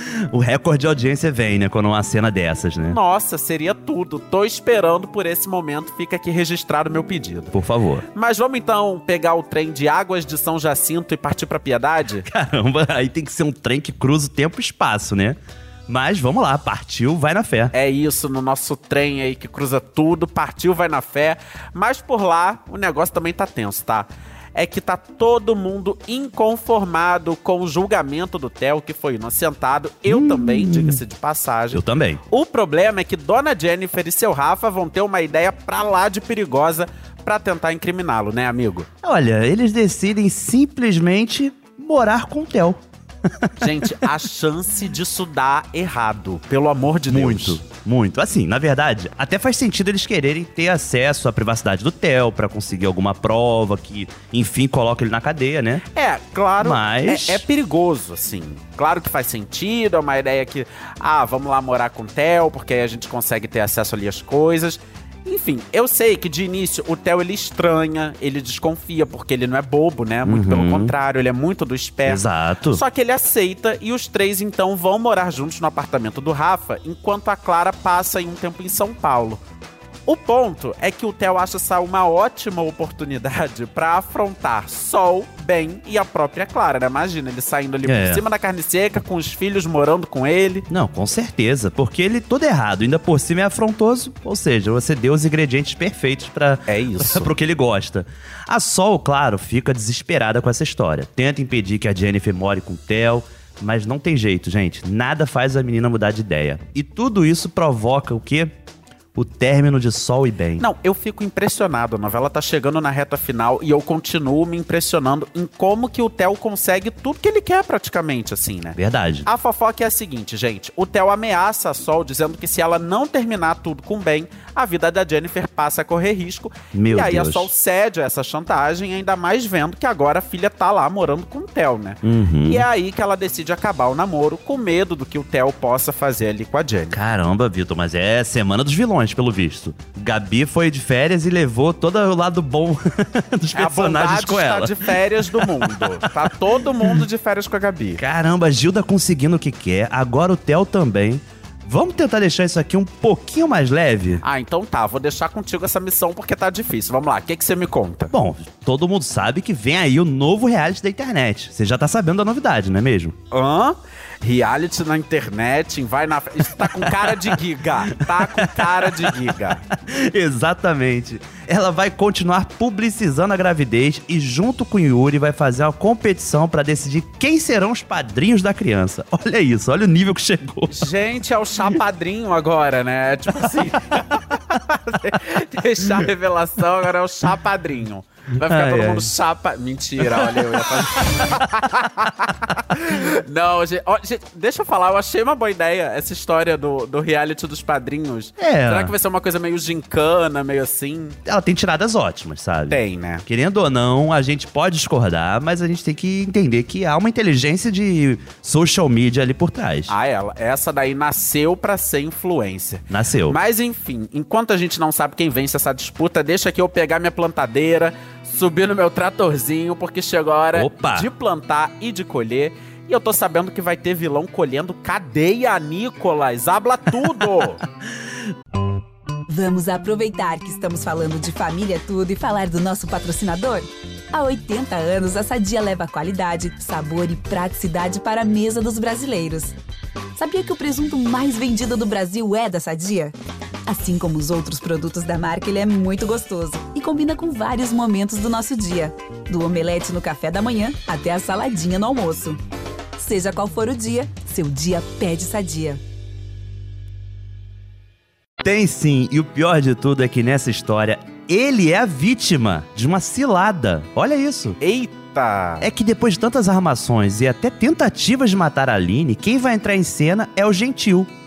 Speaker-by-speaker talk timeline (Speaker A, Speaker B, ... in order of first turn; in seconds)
Speaker A: 0.3-3.0, 7.5-8.0, 12.2-17.7, 30.1-31.0, 31.7-32.2, 39.0-42.8, 47.1-55.8, 56.6-57.4, 70.2-70.9, 72.0-72.8, 87.8-88.2, 90.7-108.5, 109.1-110.6, 118.8-119.3, 126.7-127.5, 132.0-132.7, 136.9-146.2, 148.0-154.2, 158.1-163.1, 166.7-167.3, 168.0-180.8, 188.4-189.1, 190.0-190.4, 198.4-198.9, 201.2-209.9, 212.9-213.4, 220.5-221.1, 258.4-264.6, 265.6-271.1
Speaker B: 2.9-7.5, 8.1-12.3, 17.7-38.9, 43.6-47.6, 55.9-79.4, 80.1-90.7, 96.7-97.3, 110.6-137.0, 143.5-148.0, 154.2-158.1, 163.3-169.6, 180.7-201.2, 202.7-203.2, 209.9-227.6, 264.6-265.7
Speaker C: 229.3-239.6, 240.1-243.1, 243.7-252.4, 252.9-255.8